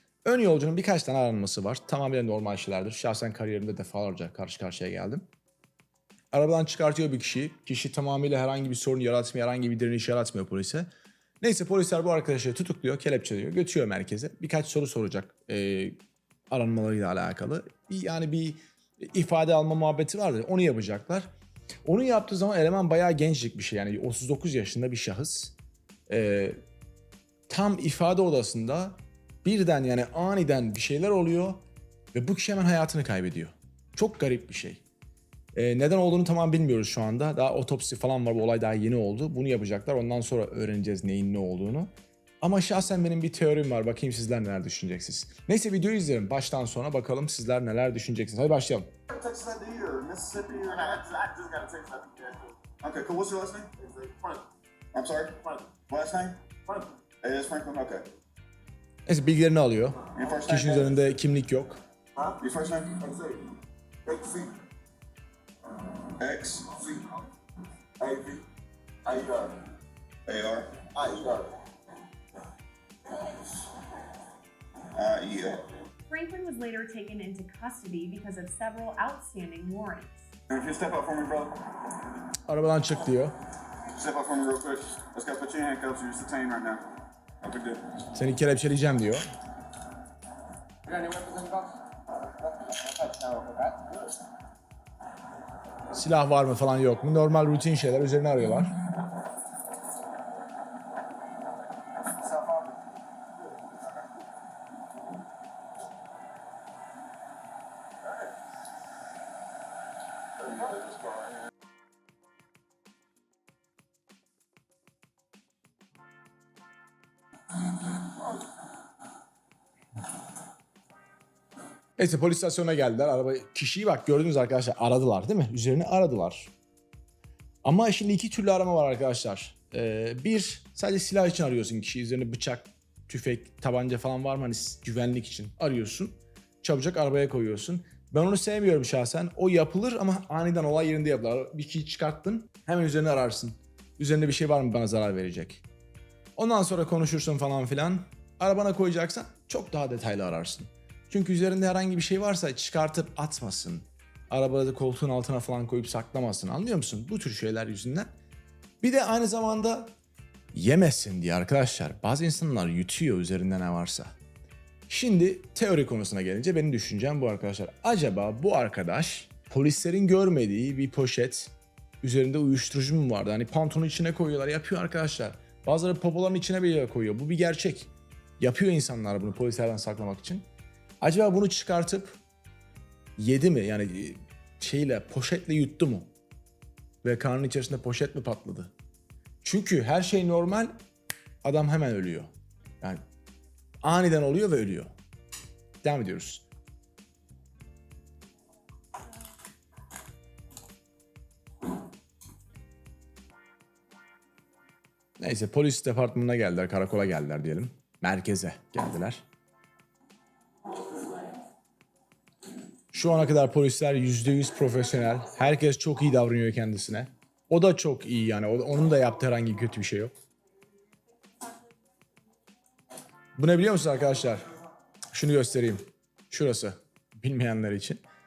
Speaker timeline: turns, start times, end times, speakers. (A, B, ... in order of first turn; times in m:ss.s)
0:00.2-0:05.2 A
0:06.3-0:10.9 A
0:11.4-0:16.0 A
0:16.5-0:21.3 A
0:21.8-0:25.6 A
0:26.1-0:26.6 A
0:27.5-0:31.6 A
0:32.1-0:34.8 A
0:35.6-0:48.9 A
0:49.1-0:52.2 B
0:51.1-0:52.5 C
0:52.8-0:53.9 B
0:53.9-0:54.4 C
0:54.9-0:56.4 B
0:57.2-0:58.1 B
0:59.1-1:01.8 A
1:00.1-1:01.0 B
1:02.4-1:03.1 B
1:03.0-1:03.5 C
1:04.1-1:04.6 C
1:06.1-1:06.8 B
1:08.0-1:08.4 C
1:09.0-1:09.6 C
1:10.3-1:11.1 B
1:11.0-1:11.6 C
1:14.9-1:15.7 B
1:16.1-1:20.2 D
1:20.5-1:21.9 B
1:22.5-1:23.4 A
1:23.9-1:26.8 B
1:27.4-1:28.0 B
1:28.1-1:29.2 A
1:30.9-1:31.7 C
1:32.5-1:33.9 C
1:35.9-1:38.8 A
1:42.2-1:42.8 C
2:02.0-2:06.5 A
2:07.6-2:25.6 A
2:26.4-2:38.1 A
2:38.8-2:39.9 A
2:40.5-2:44.2 A
2:44.9-3:00.4 A
3:01.0-3:02.2 A
3:03.2-3:06.1 A
3:07.0-3:08.7 A
3:09.4-3:10.7 A
3:11.4-3:12.3 A
3:13.8-3:14.9 A
3:15.8-3:16.4 A
3:25.2-3:29.2 A
3:32.9-3:40.1 A
3:43.4-3:44.4 A
3:45.1-3:48.0 A